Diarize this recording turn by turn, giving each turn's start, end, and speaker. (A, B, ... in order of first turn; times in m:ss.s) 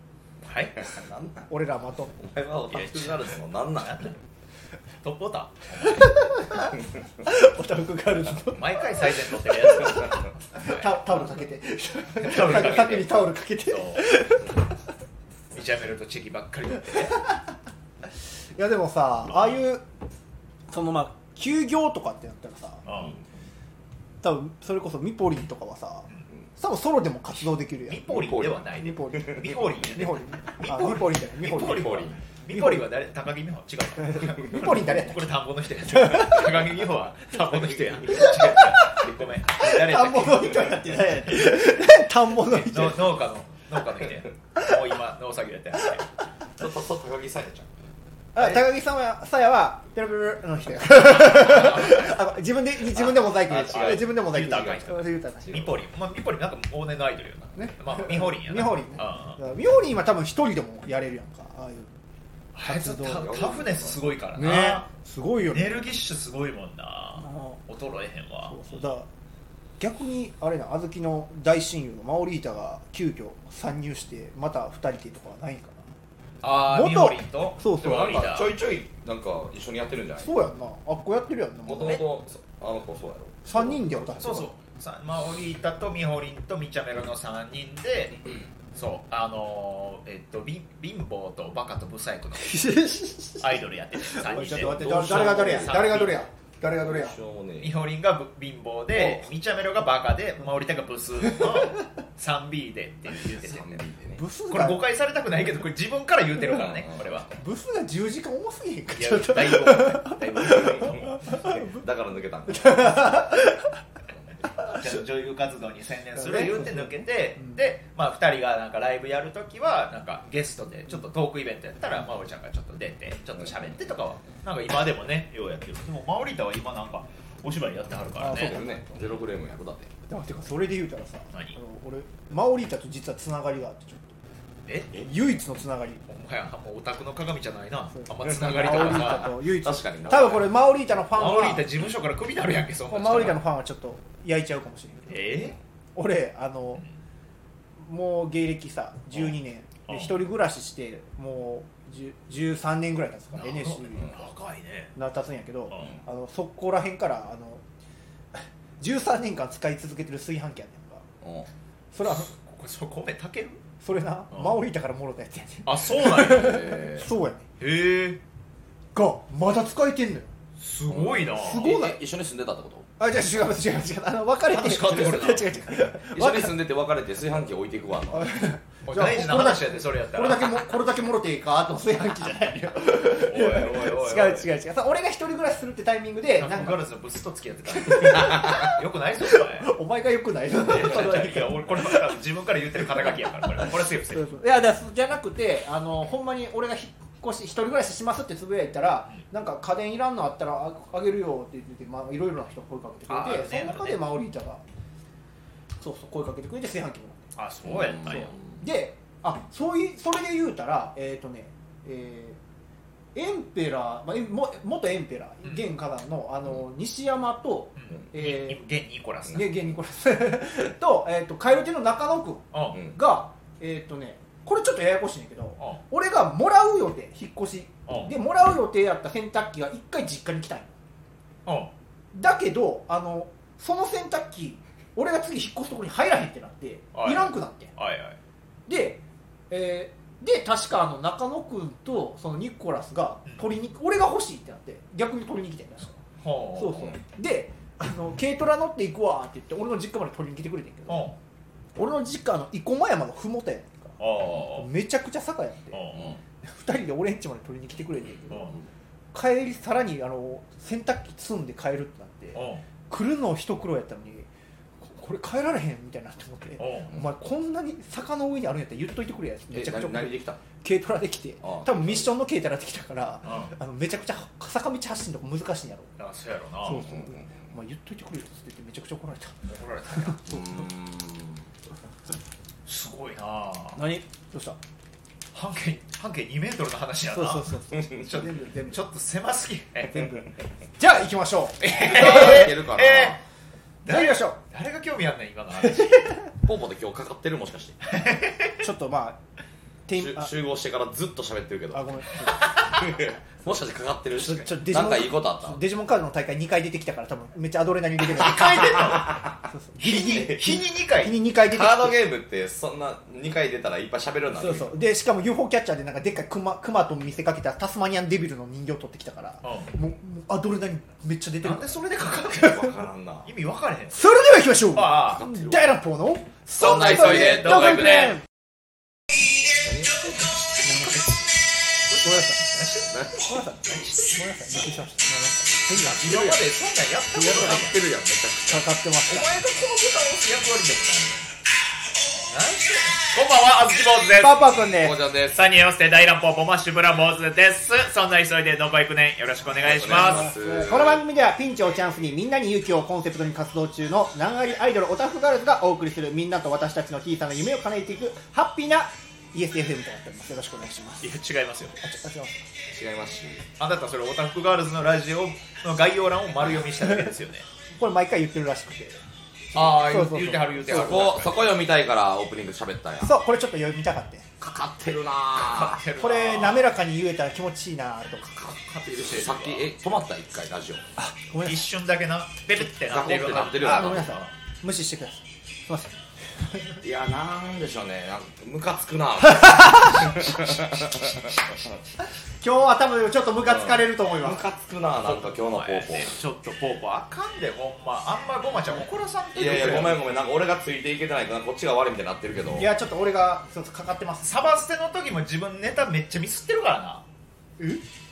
0:00.4-0:00.8 A
0:00.8-0:01.5 B
0:01.5-0:02.2 C
0:02.2-0:04.1 B
0:02.7-0:04.1 A
0:05.0-0:06.0 A
0:05.8-0:14.6 C
0:08.6-0:10.9 A
0:12.2-0:14.0 A
0:15.5-0:17.2 A
0:18.6-0:19.8 C
0:19.3-0:19.6 A
0:20.7-0:22.8 C
0:22.8-0:23.2 A
0:24.2-0:28.1 C
0:27.9-0:40.9 A
0:28.1-0:29.8 B
0:28.8-0:31.9 C
0:31.4-0:32.2 B
0:32.5-0:32.9 C
0:34.0-0:35.3 C
0:35.9-0:36.5 C
0:37.5-0:37.8 B
0:38.1-0:43.1 C
0:42.5-0:46.0 A
0:46.6-0:47.7 B
0:48.3-0:55.6 C
0:53.5-0:54.8 B
0:53.5-0:59.4 A
0:57.5-1:02.0 C
1:02.5-1:04.9 A
1:02.6-1:03.3 C
1:03.1-1:04.2 B
1:04.4-1:05.9 C
1:05.5-1:08.8 A
1:07.2-1:07.6 C
1:08.4-1:09.1 C
1:09.8-1:15.8 C
1:16.4-1:18.5 A
1:16.7-1:18.2 C
1:17.8-1:20.4 B
1:20.2-1:22.0 C
1:21.6-1:24.5 B
1:23.4-1:24.4 C
1:24.2-1:28.2 A
1:28.7-1:32.6 A
1:32.4-1:33.6 C
1:33.4-1:36.2 A
1:34.1-1:37.2 C
1:34.2-1:36.2 B
1:36.8-1:37.8 B
1:37.6-1:43.8 A
1:38.9-1:39.3 C
1:43.3-1:44.2 B
1:44.2-1:44.8 C
1:44.5-1:47.4 A
1:46.5-1:47.2 B
1:47.3-1:51.8 C
1:48.9-1:51.2 A
1:50.8-1:53.3 B
1:52.5-1:53.7 C
1:54.1-1:54.5 B
1:54.7-2:09.2 A
1:56.1-1:57.5 C
2:08.2-2:08.9 C
2:08.2-2:09.9 B
2:10.1-2:14.2 C
2:14.7-2:14.9 A
2:14.9-2:16.0 C
2:16.1-2:19.3 A
2:17.9-2:21.7 C
2:18.3-2:20.5 B
2:21.1-2:23.4 A
2:22.9-2:25.4 C
2:25.1-2:25.6 A
2:26.0-2:26.8 C
2:27.8-2:34.1 C
2:29.9-2:30.2 A
2:33.3-2:34.9 A
2:35.0-2:37.6 C
2:35.7-2:36.0 A
2:38.3-2:41.0 C
2:41.2-2:41.5 B
2:41.9-2:42.3 C
2:42.0-2:43.6 A
2:43.8-2:47.4 C
2:44.3-2:44.6 A
2:45.6-2:46.8 A
2:46.2-2:47.1 B
2:47.6-2:48.2 A
2:48.9-2:50.3 C
2:50.6-2:51.7 A
2:50.9-2:52.9 B
2:51.4-2:52.0 C
2:53.0-2:56.6 C
2:54.5-2:55.6 A
2:56.1-2:58.3 B
2:58.1-3:06.8 C
2:58.8-3:00.6 A
3:03.1-3:04.5 A
3:06.4-3:09.7 A
3:07.7-3:12.0 C
3:10.6-3:14.2 A
3:13.4-3:24.6 C
3:23.1-3:24.1 A
3:25.8-3:27.2 C
3:27.4-3:28.3 A
3:27.6-3:28.4 B
3:28.0-3:32.4 C
3:33.1-3:38.6 C
3:35.4-3:35.7 A
3:37.8-3:39.5 A
3:39.3-3:50.7 C
3:42.5-3:42.8 A
3:47.9-3:48.1 A
3:51.4-3:51.7 A
3:52.1-3:57.7 C
3:56.9-3:58.2 A
3:58.7-4:06.0 C
4:06.2-4:06.9 A
4:06.6-4:11.0 C
4:10.9-4:11.2 A
4:11.8-4:14.0 C
4:14.0-4:14.7 A
4:14.5-4:18.5 C
4:15.7-4:16.2 A
4:15.9-4:16.2 B
4:18.3-4:18.6 A
4:19.1-4:24.3 C
4:22.3-4:22.6 A
4:24.8-4:35.9 C
4:26.6-4:27.0 A
4:29.5-4:30.4 B
4:31.4-4:32.1 B
4:33.2-4:33.5 A
4:36.0-4:36.8 A
4:36.6-4:39.3 C
4:36.7-4:37.4 B
4:39.5-4:40.2 A
4:39.9-4:40.4 C
4:40.2-4:41.5 B
4:42.6-4:43.8 A
4:43.7-4:44.6 C
4:45.3-4:50.0 A
4:47.1-4:48.8 C
4:49.9-4:52.4 C
4:51.6-4:53.2 A
4:51.8-4:53.2 B
4:53.8-4:56.1 A
4:53.8-4:54.4 C
4:55.6-4:56.3 C
4:56.4-4:57.8 B
4:57.8-4:58.6 A
4:58.6-4:59.2 C
4:59.8-5:00.3 C
4:59.9-5:01.9 B
5:01.7-5:02.5 C
5:02.7-5:05.6 B
5:04.2-5:12.0 C
5:08.1-5:11.2 A
5:08.8-5:09.3 B
5:11.4-5:14.8 B
5:14.4-5:21.8 C
5:19.4-5:19.7 A
5:21.4-5:22.6 A
5:22.3-5:23.3 B
5:22.3-5:22.7 C
5:23.2-5:24.0 A
5:23.9-5:28.2 C
5:24.7-5:25.2 A
5:25.1-5:25.7 B
5:26.6-5:27.8 B
5:26.6-5:28.2 A
5:29.6-5:30.5 B
5:30.6-5:31.1 C
5:31.9-5:32.4 C
5:32.0-5:33.0 A
5:33.2-5:36.5 C
5:35.7-5:37.8 A
5:37.1-5:37.7 C
5:37.1-5:38.7 B
5:38.5-5:39.3 C
5:39.1-5:41.2 A
5:42.2-5:44.6 A
5:44.2-5:45.0 C
5:44.7-5:45.4 B
5:45.2-5:50.3 A
5:49.5-5:51.0 B
5:50.0-6:01.1 C
6:01.0-6:01.7 A
6:01.8-6:02.4 C
6:02.7-6:03.4 B
6:03.6-6:07.4 A
6:07.8-6:09.0 C
6:09.5-6:11.1 C
6:09.5-6:11.4 A
6:10.7-6:13.1 B
6:13.0-6:14.2 C
6:14.4-6:15.8 B
6:15.4-6:16.8 A
6:16.0-6:18.3 C
6:18.3-6:20.8 B
6:18.8-6:19.7 A
6:21.0-6:21.7 C
6:21.4-6:24.3 A
6:22.8-6:24.2 B
6:23.6-6:26.8 C
6:26.8-6:31.7 B
6:29.4-6:29.9 C
6:32.4-6:34.5 C
6:33.4-6:36.1 B
6:35.0-6:40.0 A
6:39.3-6:42.7 B
6:39.6-6:39.9 C
6:42.5-6:44.3 C
6:44.2-6:47.0 A